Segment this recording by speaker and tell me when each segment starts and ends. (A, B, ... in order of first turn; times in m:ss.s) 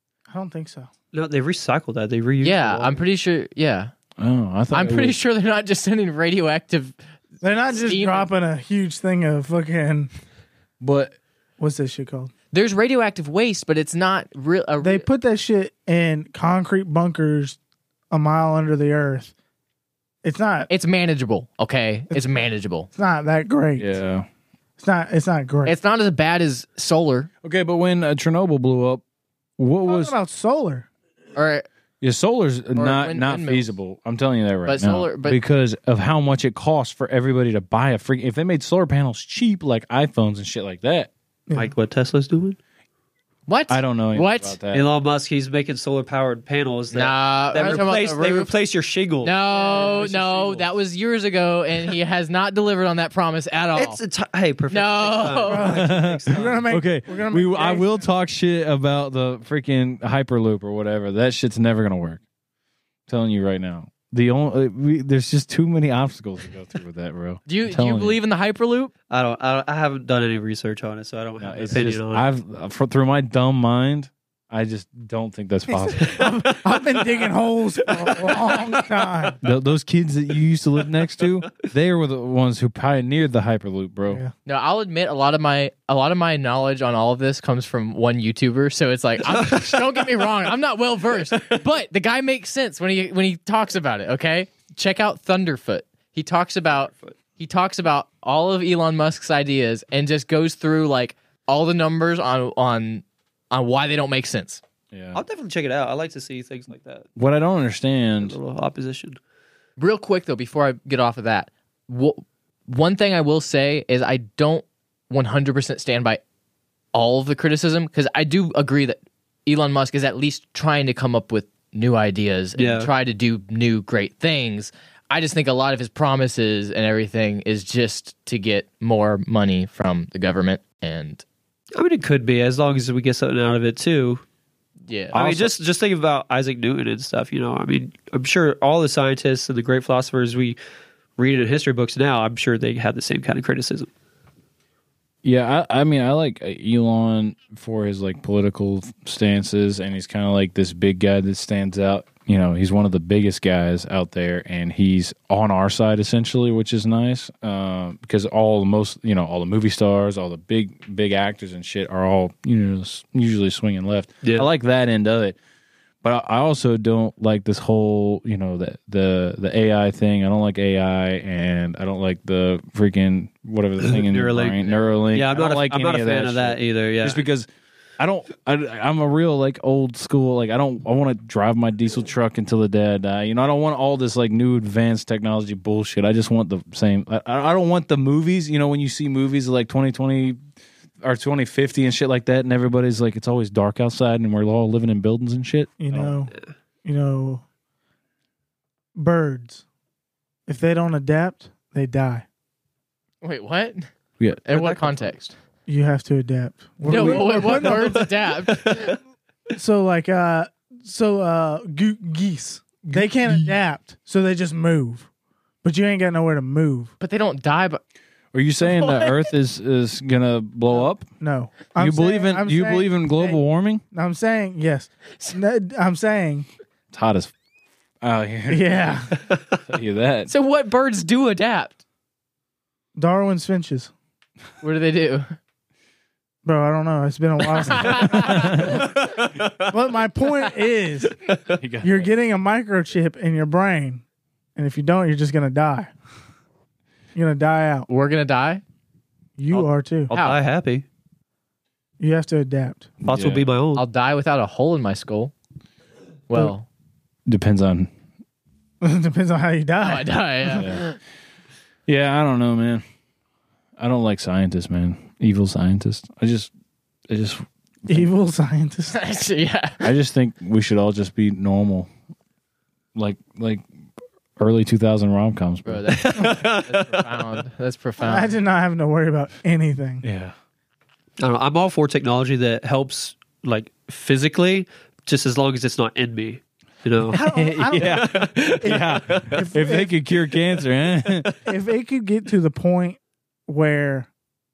0:00.3-0:00.9 A
0:01.1-0:03.0 B
0:02.4-0:03.9 C
0:04.2-0:05.2 D
0:04.7-0:07.0 C
0:07.4-0:10.1 A
0:07.7-0:08.3 C
0:10.8-0:11.1 D
0:11.6-0:12.3 A
0:12.5-0:15.0 C
0:14.8-0:17.6 A
0:18.1-0:19.3 A
0:20.2-0:20.7 A
0:20.7-0:22.9 C
0:22.1-0:22.4 A
0:22.9-0:23.9 A
0:23.8-0:24.2 D
0:24.8-0:25.7 A
0:25.6-0:27.3 C
0:27.4-0:29.0 D
0:29.6-0:30.1 D
0:29.8-0:30.9 A
0:31.3-0:31.6 C
0:32.0-0:41.1 D
0:32.8-0:33.7 C
0:34.6-0:35.4 C
0:41.5-0:42.6 B
0:43.5-0:44.6 C
0:43.7-0:44.8 D
0:44.7-0:49.3 B
0:46.9-0:48.5 C
0:47.6-0:47.8 A
0:49.2-0:54.0 C
0:49.5-0:50.6 A
0:53.7-0:56.5 B
0:54.7-0:55.8 C
0:55.4-0:58.1 A
0:55.6-1:02.2 D
1:03.1-1:08.2 D
1:07.5-1:08.9 C
1:09.1-1:12.3 B
1:11.4-1:16.4 D
1:15.7-1:19.4 A
1:16.0-1:17.3 B
1:17.9-1:19.3 B
1:19.4-1:24.2 D
1:24.4-1:44.6 C
1:29.2-1:30.2 B
1:31.2-1:31.6 B
1:36.8-1:37.1 B
1:44.9-1:45.2 D
1:45.1-1:47.1 B
1:47.2-1:48.4 D
1:48.2-1:49.2 B
1:49.8-1:56.2 C
1:56.9-2:11.2 C
2:02.6-2:02.9 B
2:11.7-2:14.2 B
2:14.9-2:15.4 C
2:15.1-2:20.6 B
2:21.2-2:23.9 B
2:25.2-2:45.4 D
2:46.0-3:10.4 D
2:53.8-2:57.2 B
3:11.0-3:16.2 D
3:15.8-3:16.3 A
3:16.8-3:17.4 A
3:18.9-3:19.6 A
3:20.5-3:22.2 A
3:23.2-3:23.9 C
3:24.2-3:24.4 D
3:24.4-3:25.3 C
3:24.5-3:25.0 B
3:25.7-3:28.1 A
3:26.8-3:29.0 C
3:27.4-3:29.0 B
3:29.5-3:35.1 A
3:32.9-3:33.4 D
3:35.6-3:36.9 A
3:37.0-3:37.8 C
3:38.3-3:41.0 D
3:38.6-3:39.2 C
3:41.2-3:43.4 A
3:41.8-3:43.8 D
3:43.9-3:46.5 A
3:46.9-3:47.3 D
3:48.0-3:49.0 D
3:48.5-3:49.1 A
3:49.6-3:50.3 D
3:50.3-3:51.8 C
3:53.0-3:53.9 A
3:54.6-3:55.3 C
3:56.4-3:59.0 A
3:57.7-3:58.7 C
3:58.1-3:58.8 D
3:59.0-3:59.6 B
3:59.6-4:01.2 A
4:01.6-4:02.1 D
4:01.8-4:04.0 A
4:04.6-4:05.9 A
4:07.1-4:07.9 A
4:07.9-4:08.6 C
4:09.4-4:10.1 A
4:09.5-4:10.8 B
4:10.1-4:10.4 C
4:12.0-4:12.9 A
4:13.0-4:13.4 D
4:13.0-4:13.8 B
4:13.8-4:15.3 C
4:16.3-4:16.7 C
4:17.3-4:17.9 D
4:18.8-4:20.6 A
4:19.8-4:21.0 C
4:20.6-4:20.8 D
4:21.9-4:22.8 D
4:23.8-4:26.5 D
4:27.1-4:28.1 D
4:27.9-4:29.0 A
4:28.9-4:29.9 C
4:29.8-4:31.9 D
4:32.9-4:33.6 D
4:34.4-4:35.9 D
4:35.6-4:38.3 C
4:35.9-4:37.2 B
4:38.0-4:40.0 A
4:40.0-4:40.3 D
4:41.2-4:49.4 B
4:47.1-4:49.9 A
4:47.1-4:51.3 D
4:51.1-4:51.4 B
4:51.4-4:54.1 A